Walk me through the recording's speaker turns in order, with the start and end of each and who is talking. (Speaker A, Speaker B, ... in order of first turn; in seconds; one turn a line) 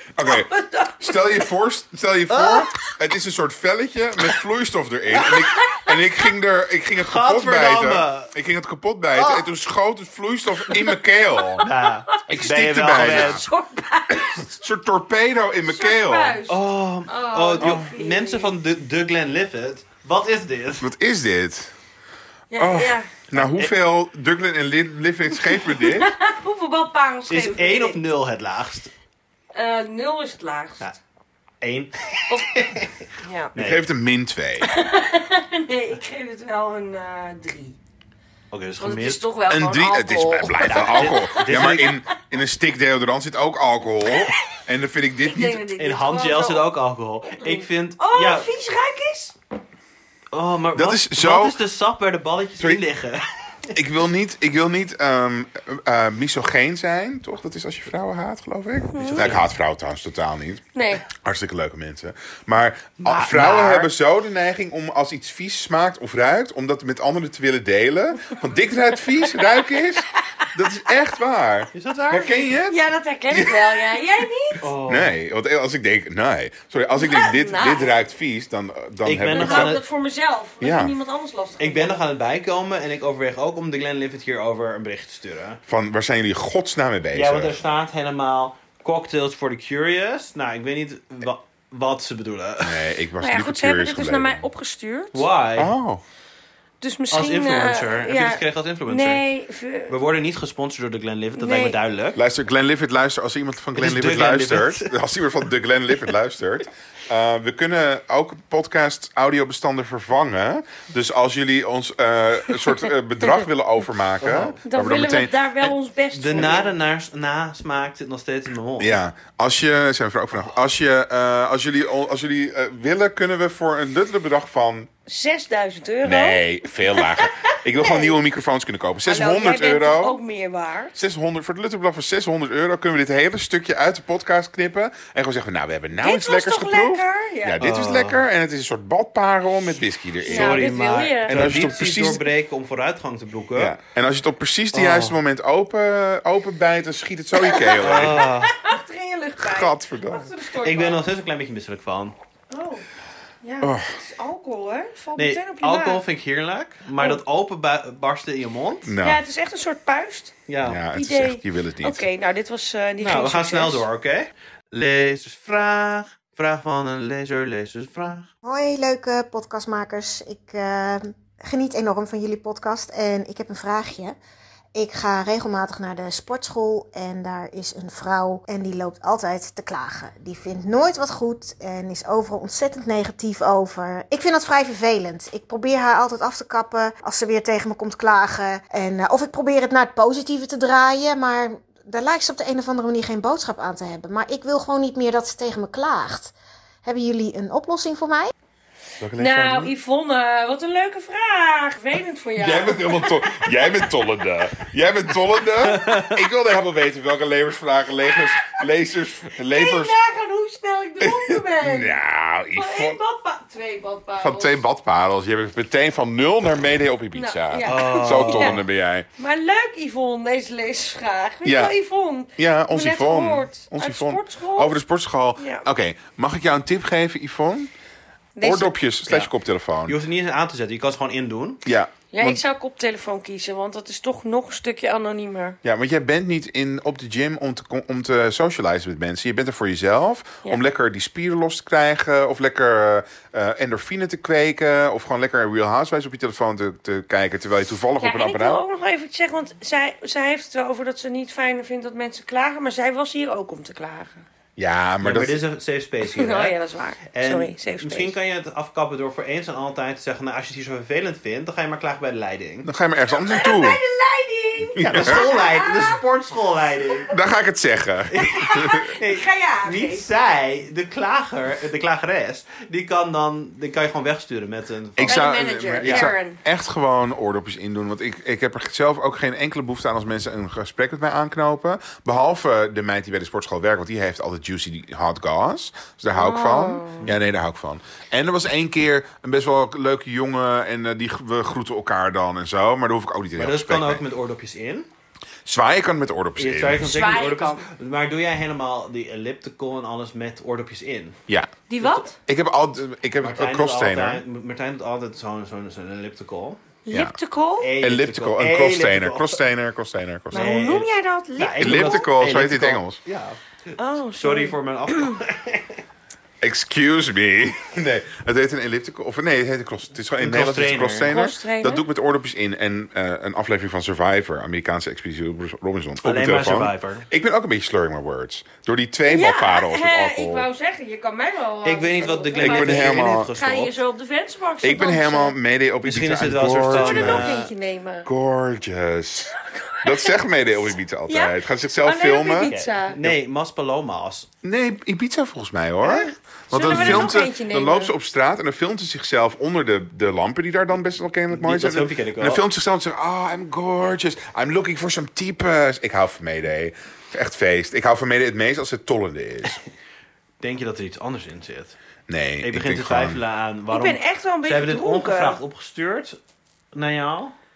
Speaker A: 0.2-11.7
Speaker B: 0.3-1.1
Speaker C: 2.3-2.7
Speaker B: 5.5-5.9
Speaker C: 7.0-8.3
Speaker C: 9.1-9.5
Speaker B: 11.4-14.5
Speaker C: 11.6-13.4
Speaker A: 12.3-13.4
Speaker A: 14.1-16.4
Speaker B: 15.7-18.5
Speaker C: 16.5-20.9
Speaker A: 17.6-17.9
Speaker A: 20.8-21.7
Speaker B: 22.5-23.1
Speaker A: 22.6-26.1
Speaker C: 23.3-23.7
Speaker B: 25.4-28.0
Speaker C: 27.3-28.9
Speaker B: 29.5-30.9
Speaker C: 31.6-33.9
Speaker B: 32.3-32.6
Speaker B: 33.2-33.5
Speaker A: 33.6-34.7
Speaker B: 34.6-37.8
Speaker C: 38.5-39.2
Speaker B: 38.8-41.9
Speaker A: 39.5-45.6
Speaker C: 40.6-42.0
Speaker B: 44.2-44.6
Speaker B: 45.2-46.7
Speaker C: 45.8-48.5
Speaker B: 47.4-49.4
Speaker C: 50.3-53.8
Speaker A: 50.8-51.6
Speaker A: 53.7-73.8
Speaker B: 58.9-59.3
Speaker C: 59.0-59.5
Speaker B: 60.7-61.0
Speaker C: 63.0-63.9
Speaker B: 69.2-69.6
Speaker B: 70.2-70.5
Speaker C: 71.7-72.5
Speaker B: 72.7-74.7
Speaker C: 74.6-75.1
Speaker A: 74.8-79.8
Speaker B: 77.0-77.9
Speaker C: 79.0-79.8
Speaker B: 79.3-82.0
Speaker A: 80.6-80.9
Speaker C: 81.6-85.6
Speaker A: 85.7-87.6
Speaker C: 87.1-92.9
Speaker A: 92.6-94.5
Speaker B: 93.2-95.3
Speaker C: 95.1-95.7
Speaker A: 95.6-96.0
Speaker B: 96.8-99.9
Speaker C: 97.1-99.2
Speaker C: 99.9-102.2
Speaker B: 101.4-101.8
Speaker A: 102.2-115.8
Speaker C: 103.8-105.0
Speaker C: 114.2-114.6
Speaker B: 114.7-116.8
Speaker C: 116.1-119.0
Speaker A: 118.8-124.9
Speaker B: 125.1-128.2
Speaker A: 126.0-130.2
Speaker B: 129.1-131.0
Speaker A: 131.0-142.3
Speaker B: 136.0-137.6
Speaker C: 137.6-138.2
Speaker C: 140.2-143.8
Speaker B: 140.3-141.5
Speaker A: 143.6-148.3
Speaker C: 144.7-145.2
Speaker B: 147.4-151.0
Speaker C: 147.8-148.6
Speaker A: 149.4-150.3
Speaker C: 150.6-152.2
Speaker B: 152.5-152.8
Speaker B: 153.4-156.0
Speaker A: 153.6-154.0
Speaker C: 155.2-158.9
Speaker B: 157.0-157.2
Speaker A: 158.8-159.2
Speaker B: 159.0-160.4
Speaker C: 160.5-160.8
Speaker A: 160.6-162.1
Speaker B: 160.9-163.9
Speaker C: 163.0-168.3
Speaker D: 168.4-174.2
Speaker D: 174.8-198.3
Speaker A: 199.0-199.7
Speaker B: 199.2-203.5
Speaker A: 202.4-210.0
Speaker C: 205.6-206.2
Speaker B: 209.4-212.0
Speaker A: 211.0-213.0
Speaker B: 212.6-214.6
Speaker A: 214.2-219.1
Speaker B: 217.1-218.6
Speaker C: 217.6-218.6
Speaker B: 219.2-224.8
Speaker A: 221.4-221.8
Speaker A: 222.4-227.7
Speaker B: 225.4-225.7
Speaker B: 228.4-228.8
Speaker A: 228.4-230.0
Speaker C: 229.9-231.6
Speaker A: 231.7-232.4
Speaker B: 232.1-235.6
Speaker A: 235.6-248.6
Speaker B: 248.0-254.2
Speaker A: 254.6-255.4
Speaker C: 255.0-256.6
Speaker B: 256.1-258.1
Speaker C: 257.1-262.7
Speaker A: 262.6-263.8
Speaker B: 263.1-265.9
Speaker A: 264.8-265.2
Speaker C: 264.8-267.1
Speaker A: 267.1-268.9
Speaker B: 268.2-270.1
Speaker C: 269.0-275.3
Speaker A: 275.0-294.0
Speaker B: 275.0-276.4
Speaker C: 275.8-276.1
Speaker B: 286.1-287.1
Speaker C: 293.4-294.9
Speaker A: 295.4-297.2
Speaker C: 296.4-301.2
Speaker B: 296.9-297.7
Speaker B: 301.7-302.2
Speaker A: 302.2-304.2
Speaker C: 303.2-306.6
Speaker B: 306.9-307.7
Speaker A: 306.9-307.2
Speaker C: 307.6-309.4
Speaker A: 307.8-310.5
Speaker B: 310.3-312.1
Speaker C: 310.3-315.8
Speaker A: 311.6-313.0
Speaker B: 313.8-315.1
Speaker A: 316.4-330.5
Speaker C: 320.2-321.1
Speaker B: 321.1-321.8
Speaker C: 326.0-327.1
Speaker B: 329.1-335.4
Speaker C: 331.6-333.8
Speaker A: 332.4-333.3
Speaker A: 334.6-337.3
Speaker C: 335.8-337.5
Speaker B: 336.7-338.1
Speaker A: 338.1-343.2
Speaker B: 339.2-340.2
Speaker B: 341.1-343.0
Speaker C: 342.4-344.3
Speaker A: 344.4-359.6
Speaker C: 345.8-346.1
Speaker B: 346.5-347.9
Speaker C: 346.6-347.2
Speaker C: 351.3-352.4
Speaker C: 360.4-361.8
Speaker A: 362.1-363.2
Speaker C: 362.4-366.2
Speaker B: 363.7-365.4
Speaker C: 366.7-367.3